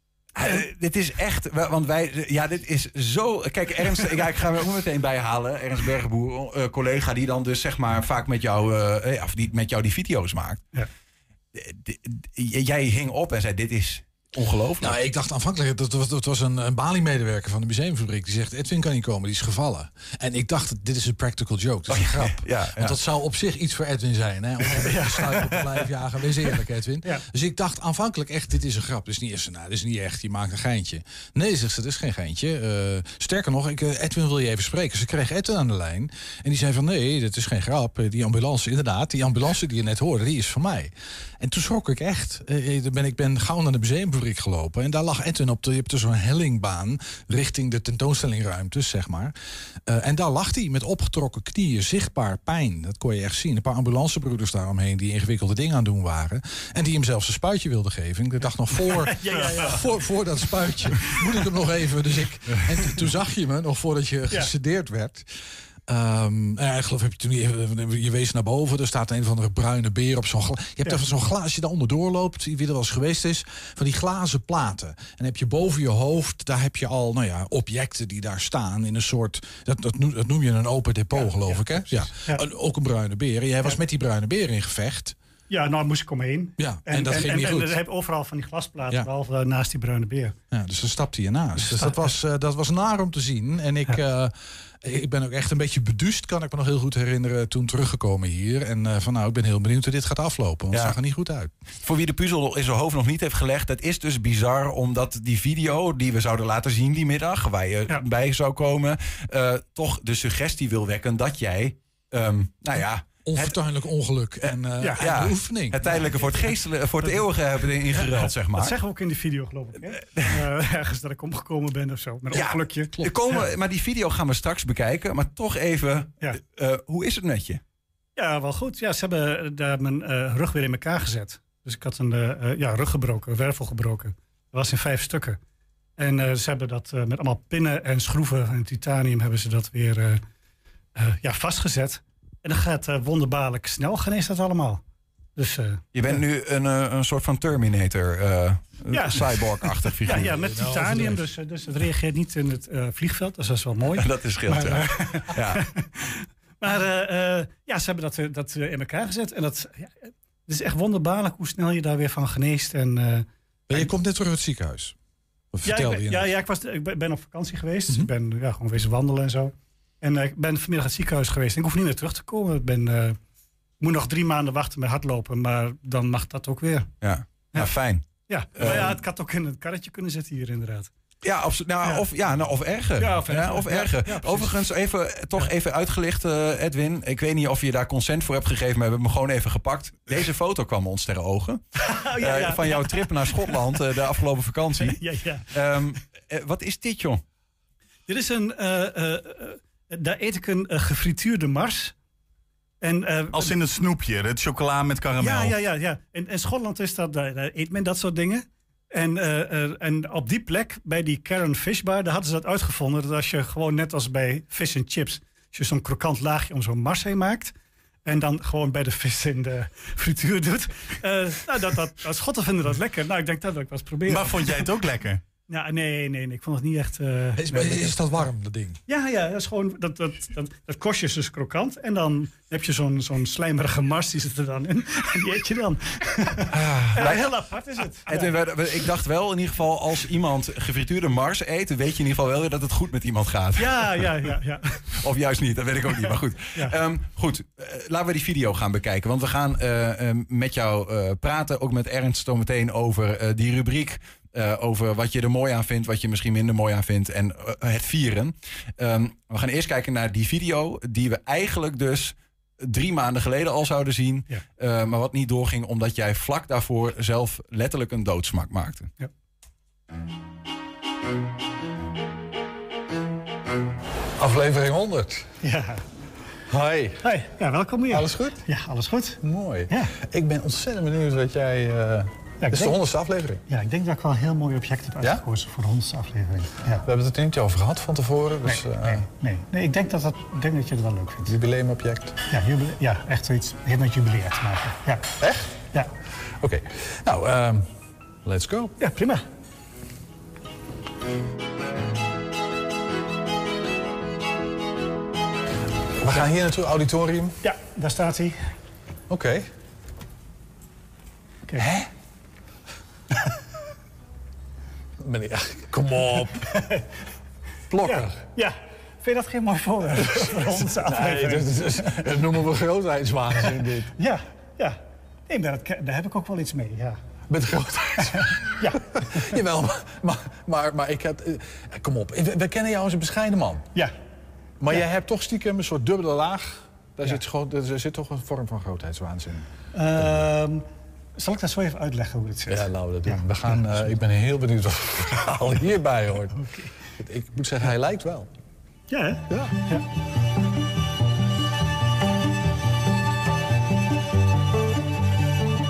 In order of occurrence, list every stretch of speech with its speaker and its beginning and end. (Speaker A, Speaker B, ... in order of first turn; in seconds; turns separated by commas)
Speaker A: 0.3-10.6, Speaker A: 11.5-15.0, Speaker B: 14.8-49.3, Speaker A: 21.9-22.9, Speaker C: 24.7-25.6, Speaker B: 49.9-65.3, Speaker C: 58.9-59.8, Speaker B: 65.9-85.2, Speaker C: 81.1-82.4, Speaker C: 85.5-90.3, Speaker B: 86.6-87.8, Speaker B: 90.5-101.5, Speaker C: 91.8-92.1, Speaker A: 100.7-101.0, Speaker A: 101.8-113.5, Speaker B: 113.2-115.8, Speaker A: 115.0-118.7, Speaker C: 117.9-123.4, Speaker A: 122.3-127.6, Speaker C: 128.2-135.4, Speaker C: 136.0-140.2, Speaker C: 140.9-144.8, Speaker C: 145.3-146.2, Speaker A: 145.9-150.3, Speaker C: 148.9-163.9, Speaker B: 150.2-151.2, Speaker A: 153.9-155.6, Speaker B: 163.7-164.9, Speaker B: 165.5-166.3, Speaker C: 165.6-173.2, Speaker C: 173.8-176.9, Speaker A: 177.0-178.1, Speaker C: 178.3-180.9, Speaker A: 178.6-179.0, Speaker A: 181.2-191.6, Speaker C: 183.0-184.5, Speaker C: 191.8-193.6, Speaker A: 192.2-195.0, Speaker C: 194.8-195.5, Speaker A: 195.5-197.2, Speaker C: 198.1-201.9, Speaker C: 202.8-203.6, Speaker D: 203.3-205.6, Speaker C: 205.2-217.5, Speaker C: 218.0-224.5, Speaker D: 224.1-225.2, Speaker C: 225.5-227.9, Speaker B: 227.3-228.8, Speaker C: 228.9-238.3, Speaker A: 236.5-237.2, Speaker A: 238.1-244.0, Speaker C: 243.6-244.8, Speaker A: 245.0-268.9, Speaker B: 274.2-275.3, Speaker C: 275.4-275.8, Speaker B: 276.5-277.1, Speaker C: 277.0-279.9, Speaker B: 277.9-278.4, Speaker B: 279.2-283.4, Speaker C: 282.4-282.8, Speaker C: 283.5-286.8, Speaker B: 286.8-289.0, Speaker C: 288.4-291.3, Speaker B: 291.2-292.2, Speaker C: 292.3-295.1, Speaker B: 295.2-295.6, Speaker B: 296.4-297.7, Speaker B: 298.2-298.7, Speaker C: 298.8-299.2, Speaker B: 305.9-307.4, Speaker C: 307.4-308.5, Speaker B: 309.1-309.5, Speaker B: 311.6-311.9, Speaker B: 315.0-316.5, Speaker C: 316.4-316.9, Speaker B: 317.7-318.1, Speaker C: 317.8-322.0, Speaker B: 320.0-323.9, Speaker C: 323.5-327.0, Speaker B: 327.3-333.7, Speaker C: 328.1-328.8, Speaker B: 334.6-340.2, Speaker C: 339.7-340.6, Speaker C: 341.2-343.2, Speaker B: 342.5-348.3, Speaker C: 346.4-346.7, Speaker C: 348.9-349.8